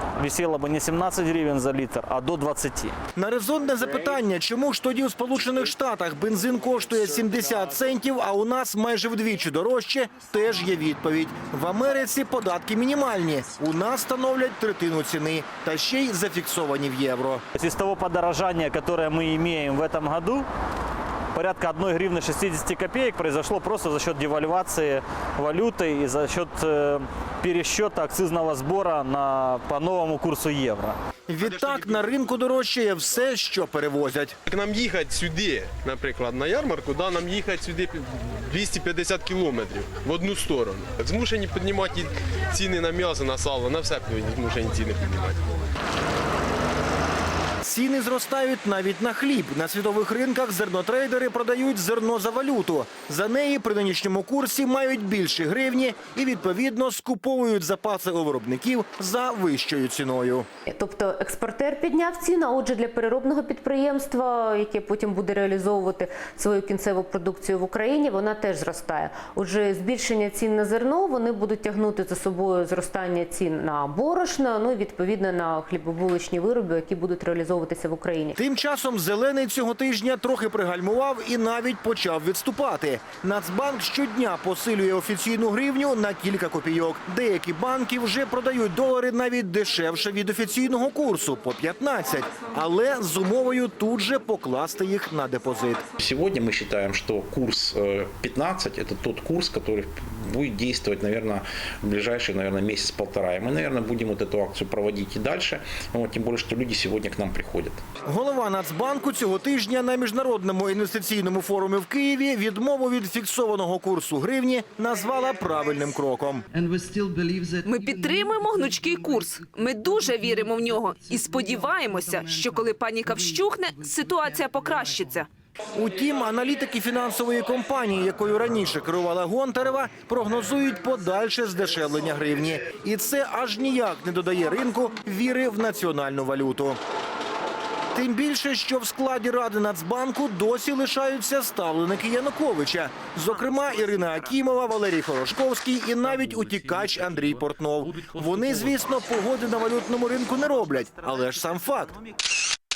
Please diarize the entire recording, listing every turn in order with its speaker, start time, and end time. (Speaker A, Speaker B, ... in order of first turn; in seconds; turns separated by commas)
Speaker A: 0.2-3.0, Speaker B: 3.1-17.4, Speaker A: 17.5-20.4, Speaker A: 21.3-31.0, Speaker B: 31.3-34.4, Speaker C: 31.5-31.8, Speaker C: 34.5-45.2, Speaker B: 47.6-60.5, Speaker D: 60.7-78.4, Speaker B: 78.4-95.8, Speaker E: 96.0-107.8, Speaker B: 108.0-116.4, Speaker F: 117.6-125.3, Speaker B: 125.8-136.8, Speaker B: 137.9-152.0